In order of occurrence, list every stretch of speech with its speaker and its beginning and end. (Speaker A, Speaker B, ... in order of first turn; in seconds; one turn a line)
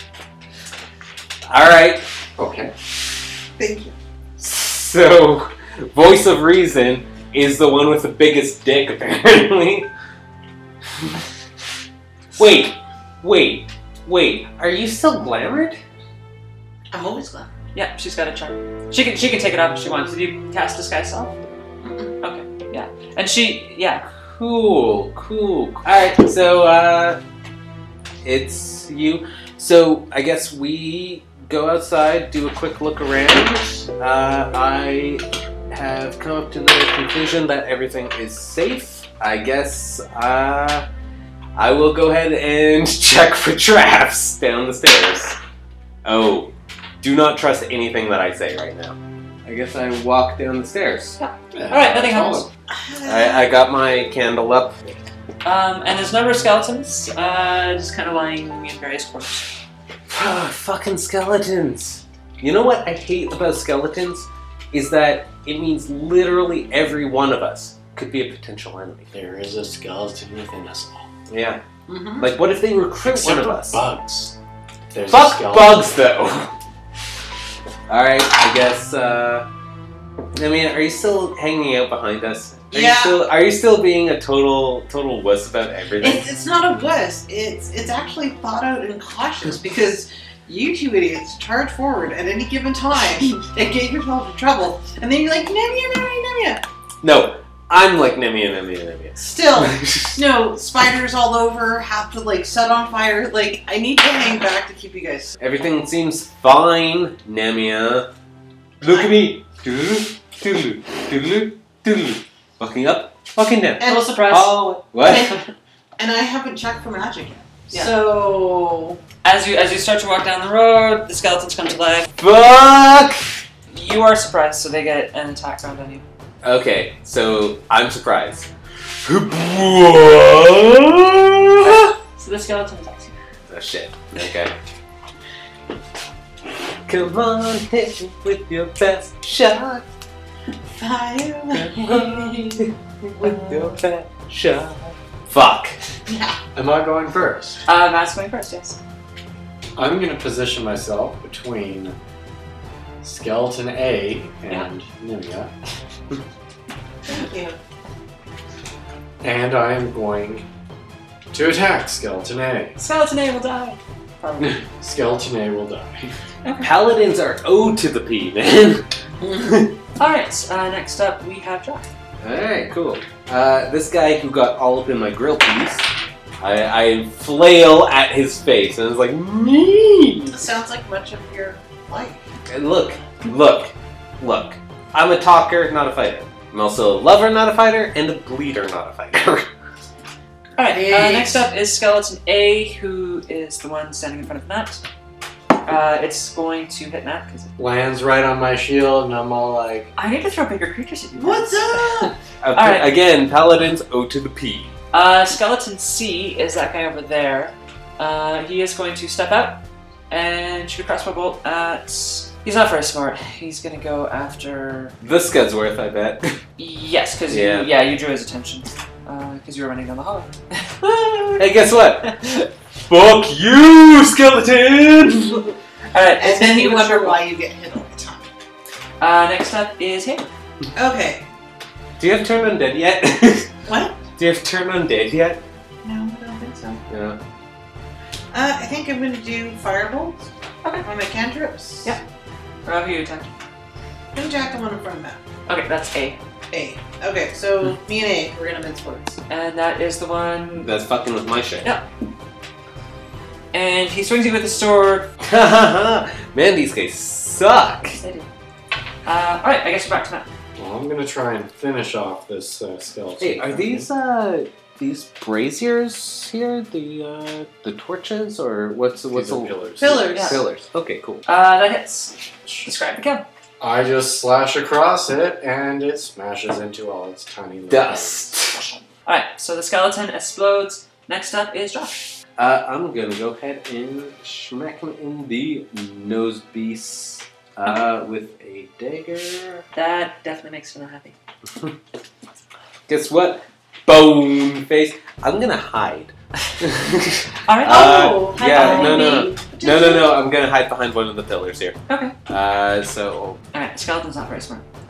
Speaker A: 1.5-2.0
Speaker B: 2.4-2.7
Speaker C: 3.6-3.9
Speaker A: 4.4-9.9
Speaker A: 12.3-15.8
Speaker C: 16.9-17.5
Speaker D: 17.7-21.3
Speaker C: 21.8-22.1
Speaker D: 22.2-24.0
Speaker A: 24.4-27.2
Speaker A: 28.2-40.9
Speaker A: 41.5-45.4
Speaker A: 46.0-51.2
Speaker D: 51.2-52.5
Speaker B: 51.5-52.5
Speaker C: 52.7-53.5
Speaker A: 53.0-54.9
Speaker D: 55.4-59.5
Speaker A: 60.1-69.1
Speaker B: 69.1-71.1
Speaker A: 71.3-71.6
Speaker C: 71.9-72.3
Speaker A: 72.2-73.8
Speaker B: 73.0-74.3
Speaker B: 74.9-75.8
Speaker A: 75.1-76.5
Speaker A: 77.9-79.5
Speaker A: 80.3-86.2
Speaker C: 82.7-83.2
Speaker C: 86.0-96.6
Speaker A: 97.0-100.2
Speaker C: 99.2-105.3
Speaker A: 105.4-108.1
Speaker A: 108.8-115.3
Speaker C: 108.8-109.2
Speaker C: 113.8-114.1
Speaker D: 113.8-114.6
Speaker C: 115.0-115.4
Speaker C: 116.0-119.0
Speaker D: 119.2-122.1
Speaker A: 122.2-123.2
Speaker D: 123.7-126.0
Speaker A: 126.4-128.5
Speaker A: 129.0-131.9
Speaker D: 131.6-133.1
Speaker A: 133.5-134.5
Speaker A: 136.8-139.8
Speaker C: 140.7-142.6
Speaker A: 141.5-145.8
Speaker C: 146.1-146.4
Speaker B: 146.5-147.6
Speaker D: 147.7-148.8
Speaker B: 149.8-151.9
Speaker B: 153.0-155.5
Speaker C: 157.1-157.6
Speaker B: 159.2-160.4
Speaker B: 161.3-162.7
Speaker D: 162.8-164.6
Speaker B: 164.8-166.1
Speaker D: 166.4-166.7
Speaker A: 166.6-169.7
Speaker D: 169.9-171.9
Speaker A: 172.2-175.8
Speaker A: 176.4-180.4
Speaker C: 180.3-182.2
Speaker A: 182.5-189.5
Speaker D: 190.6-194.8
Speaker C: 190.6-191.4
Speaker D: 195.6-197.5
Speaker B: 197.6-199.9
Speaker D: 199.9-202.9
Speaker C: 201.2-202.1
Speaker A: 202.4-204.7
Speaker D: 204.9-214.9
Speaker A: 215.0-216.4
Speaker D: 216.6-221.4
Speaker A: 217.3-217.7
Speaker A: 221.4-222.3
Speaker D: 222.0-222.4
Speaker A: 222.9-225.5
Speaker D: 225.9-227.2
Speaker C: 226.2-228.3
Speaker D: 229.0-230.2
Speaker C: 230.7-231.2
Speaker A: 232.0-233.5
Speaker C: 233.7-234.0
Speaker A: 234.2-235.4
Speaker C: 235.8-236.8
Speaker A: 236.9-237.2
Speaker C: 238.3-240.2
Speaker C: 240.8-242.0
Speaker D: 242.6-243.3
Speaker C: 244.1-245.2
Speaker D: 245.5-246.2
Speaker C: 246.5-249.2
Speaker D: 249.3-250.7
Speaker A: 250.6-251.7
Speaker D: 253.5-255.1
Speaker A: 255.2-258.0
Speaker D: 258.0-258.3
Speaker D: 259.0-260.3
Speaker B: 260.6-263.9
Speaker A: 263.2-271.2
Speaker B: 269.1-270.1
Speaker C: 269.8-270.4
Speaker D: 270.1-270.4
Speaker D: 271.2-273.2
Speaker B: 273.6-278.3
Speaker A: 277.7-278.6
Speaker D: 279.0-282.1
Speaker A: 282.4-289.6
Speaker D: 289.7-291.1
Speaker A: 292.9-303.4
Speaker D: 297.4-299.3
Speaker C: 297.6-300.2
Speaker D: 301.9-302.1
Speaker D: 303.5-304.6